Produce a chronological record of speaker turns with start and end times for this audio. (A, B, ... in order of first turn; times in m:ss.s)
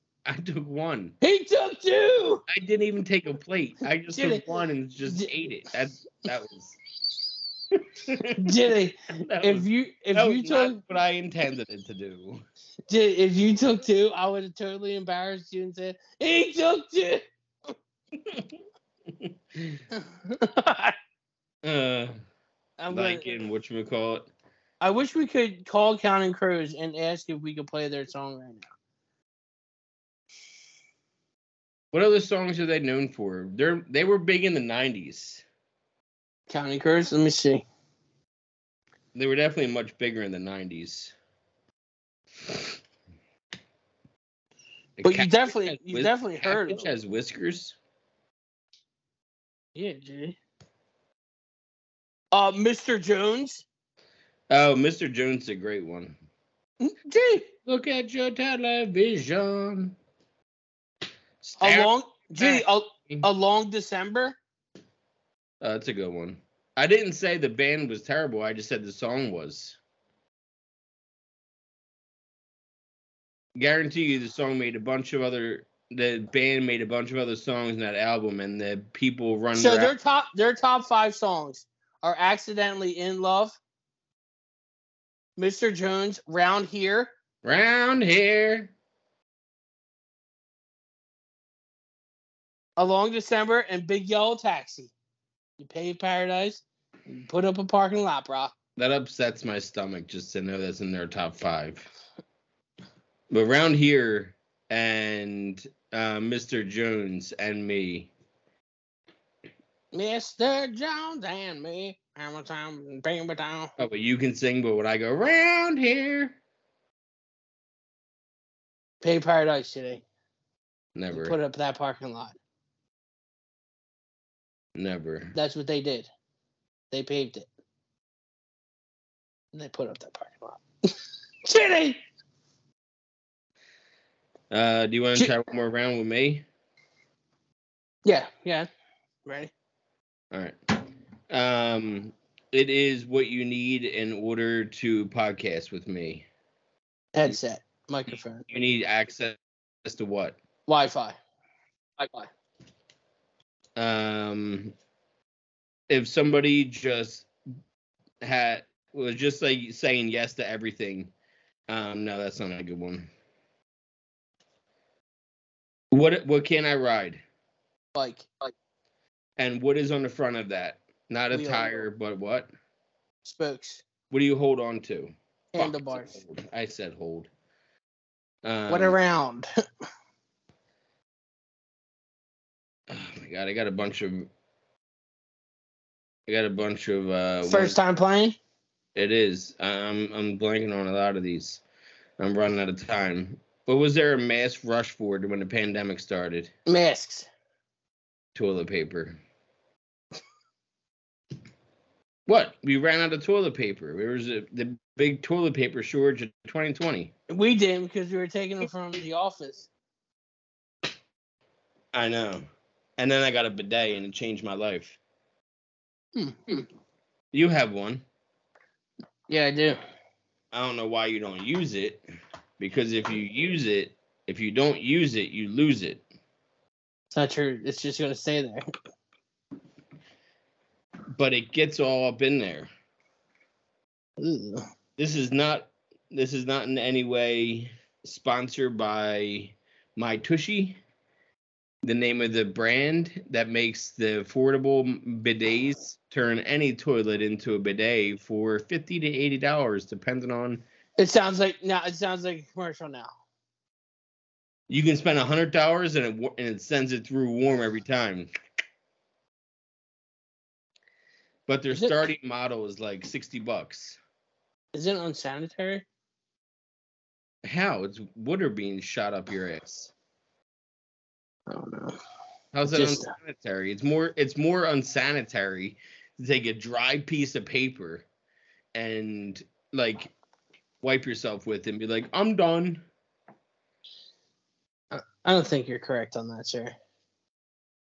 0:00.3-0:01.2 A
0:01.2-0:02.4 B
0:02.5-0:06.8 A
0:04.1-0:04.4 B
0:08.0-0:08.6 A
0:08.4-0:10.8 B
0:09.2-0:12.4 A
0:12.9-0:17.2 B
0:19.2-0:19.8 A
0:19.9-0:21.0 B
0:21.6-0:22.2 A
0:22.8-0:23.3 B
0:22.9-0:24.3 A
0:24.8-0:28.7 B
0:31.9-0:35.4 A
0:36.5-0:37.6 B
0:39.2-0:41.1 A
0:45.0-0:47.8 A
0:45.0-0:46.9 B
0:49.8-0:50.4 B
0:52.3-0:53.6 B
0:54.5-0:56.2 A
0:56.8-0:57.5 B
0:57.6-1:00.0 A
1:01.4-1:03.3 A
1:01.6-1:04.4 B
1:05.6-1:09.8 A
1:13.6-1:19.9 A
1:19.5-1:23.6 B
1:25.4-1:27.1 B
1:27.4-1:28.7 A
1:32.8-1:34.9 B
1:35.6-1:38.5 B
1:38.8-1:41.9 A
1:43.3-1:48.1 A
1:49.9-1:53.7 B
1:53.8-1:56.4 A
1:59.0-2:00.0 B
2:01.0-2:01.4 A
2:01.1-2:02.4 B
2:04.8-2:05.4 A
2:05.4-2:06.1 B
2:06.9-2:07.5 B
2:09.5-2:10.6 B
2:11.4-2:12.0 B
2:14.5-2:16.4 A
2:18.0-2:18.7 B
2:19.2-2:19.5 B
2:20.3-2:20.6 A
2:21.3-2:26.3 A
2:27.2-2:28.4 B
2:28.5-2:30.4 A
2:30.7-2:31.2 B
2:32.0-2:32.3 B
2:33.8-2:34.7 A
2:35.9-2:37.3 A
2:38.2-2:41.1 A
2:41.7-2:43.1 A
2:45.9-2:47.2 A
2:48.0-2:48.3 B
2:49.4-2:52.5 A
2:51.3-2:51.8 B
2:53.2-2:53.8 B
2:54.1-2:57.3 A
2:55.5-2:56.1 B
2:58.4-2:59.0 A
2:58.7-2:59.5 B
3:02.9-3:04.3 A
3:06.3-3:07.8 A
3:07.4-3:08.4 B
3:09.0-3:11.6 A
3:12.2-3:16.5 A
3:16.7-3:17.3 B
3:18.4-3:19.2 A
3:22.3-3:27.1 A
3:27.3-3:29.7 B
3:31.9-3:32.5 A
3:33.0-3:35.0 A
3:36.2-3:36.6 B
3:37.3-3:38.0 A
3:39.3-3:39.8 B
3:40.5-3:42.0 A
3:42.6-3:46.0 A
3:47.1-3:48.6 B
3:51.2-3:52.7 A
3:54.2-3:54.6 B
3:55.0-4:00.8 A
4:01.8-4:10.6 A
4:11.0-4:13.1 B
4:14.7-4:18.3 A
4:21.5-4:24.0 A
4:24.7-4:25.9 B
4:27.4-4:29.9 A
4:31.5-4:32.0 B
4:32.5-4:38.1 A
4:32.7-4:33.1 B
4:38.8-4:40.1 A
4:40.8-4:42.8 A
4:44.9-4:46.8 B